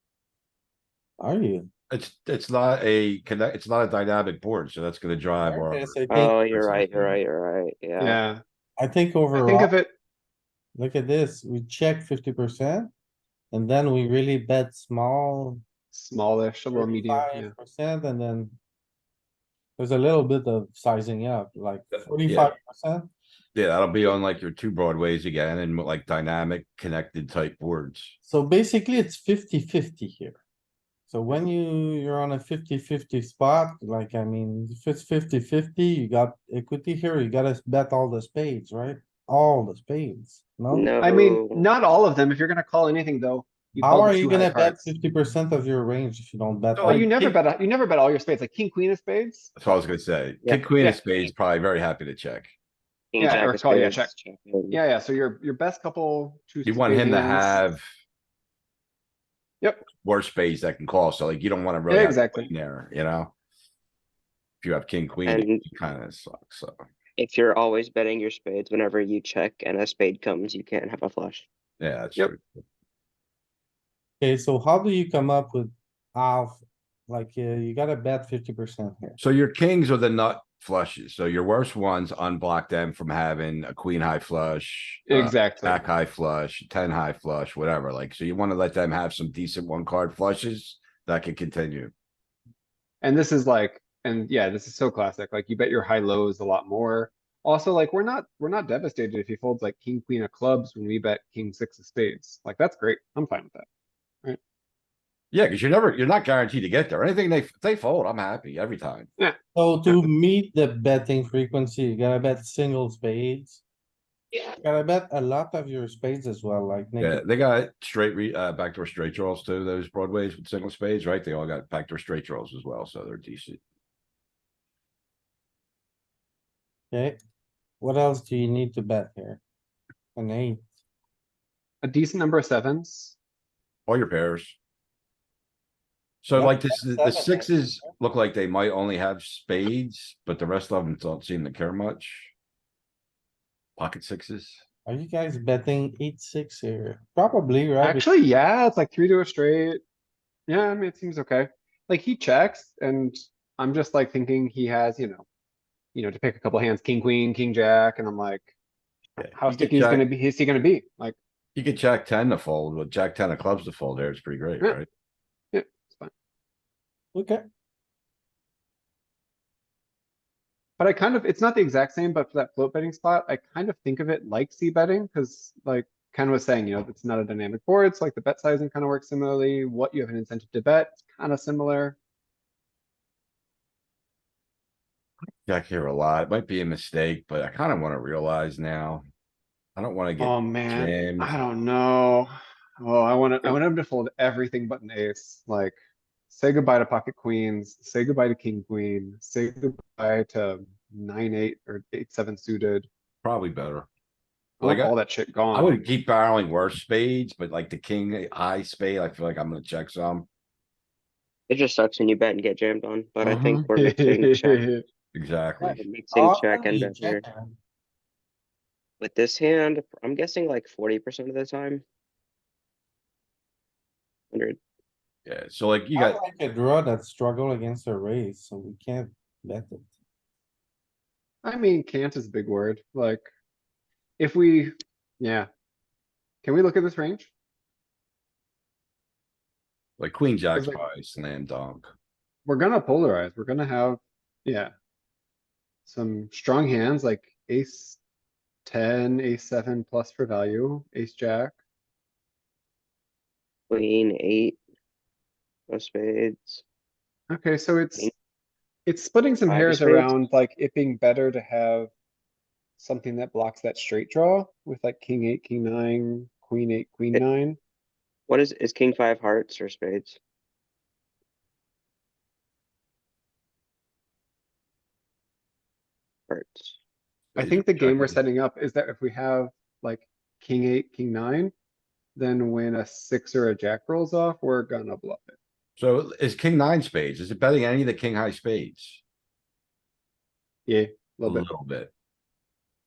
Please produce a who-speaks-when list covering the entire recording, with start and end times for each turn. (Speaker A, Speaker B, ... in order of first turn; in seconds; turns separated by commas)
Speaker A: 1.2-1.7, Speaker B: 1.9-6.0, Speaker A: 5.4-7.2, Speaker C: 6.1-8.2, Speaker B: 6.5-6.8, Speaker D: 8.0-8.4, Speaker A: 8.8-9.7, Speaker D: 9.3-9.9, Speaker A: 10.7-12.9, Speaker A: 13.5-15.6, Speaker D: 15.9-17.5, Speaker A: 16.7-18.6, Speaker A: 19.8-23.1, Speaker B: 21.9-22.5, Speaker B: 23.5-28.1, Speaker A: 28.2-30.4, Speaker A: 31.1-40.9, Speaker C: 40.7-41.7, Speaker D: 41.0-44.8, Speaker A: 43.8-47.1, Speaker B: 46.7-47.4, Speaker D: 46.8-49.7, Speaker B: 49.6-52.5, Speaker C: 53.1-54.8, Speaker D: 53.2-54.1, Speaker D: 54.7-57.6, Speaker B: 56.6-57.9, Speaker B: 60.0-63.3, Speaker D: 61.9-62.5, Speaker B: 64.6-66.8, Speaker C: 65.2-65.7, Speaker C: 67.2-71.5, Speaker B: 71.8-72.6, Speaker A: 74.2-79.2, Speaker B: 79.2-91.9, Speaker D: 85.1-85.8, Speaker D: 93.0-103.7, Speaker B: 105.3-109.1, Speaker A: 109.5-113.6, Speaker A: 114.3-117.2, Speaker B: 117.0-123.6, Speaker A: 126.9-127.2, Speaker A: 127.8-129.4, Speaker A: 130.1-130.7, Speaker D: 131.8-133.2, Speaker B: 133.9-134.6, Speaker B: 136.2-142.3, Speaker A: 136.3-137.9, Speaker B: 143.8-144.6, Speaker A: 144.8-148.1, Speaker D: 147.8-149.8, Speaker D: 150.5-155.2, Speaker D: 155.9-158.5, Speaker B: 159.2-160.1, Speaker D: 159.2-161.2, Speaker B: 161.5-164.9, Speaker D: 165.5-166.1, Speaker A: 167.1-167.4, Speaker D: 170.8-182.0, Speaker B: 185.4-189.0, Speaker B: 189.8-191.3, Speaker D: 190.2-195.8, Speaker D: 196.3-202.9, Speaker B: 203.2-203.9, Speaker B: 204.6-204.9, Speaker D: 204.6-205.9, Speaker B: 205.5-210.3, Speaker C: 211.5-214.6, Speaker D: 213.2-214.8, Speaker B: 215.1-215.8, Speaker C: 215.6-217.2, Speaker A: 216.1-217.6, Speaker C: 219.0-221.8, Speaker C: 224.3-224.6, Speaker B: 225.2-226.2, Speaker A: 225.9-229.9, Speaker D: 231.4-233.2, Speaker D: 234.2-235.5, Speaker D: 236.4-237.3, Speaker B: 240.0-241.9, Speaker D: 240.5-240.8, Speaker D: 242.4-244.7, Speaker D: 245.8-248.0, Speaker D: 248.6-251.6, Speaker C: 253.7-254.6, Speaker C: 255.7-256.6, Speaker D: 257.3-258.1, Speaker D: 258.9-261.9, Speaker C: 259.4-260.2, Speaker D: 262.8-267.6, Speaker C: 268.3-270.2, Speaker C: 276.3-276.8, Speaker B: 277.3-278.2, Speaker D: 277.4-281.5, Speaker D: 282.1-285.4, Speaker B: 285.8-289.0, Speaker D: 290.7-291.5, Speaker B: 291.2-291.9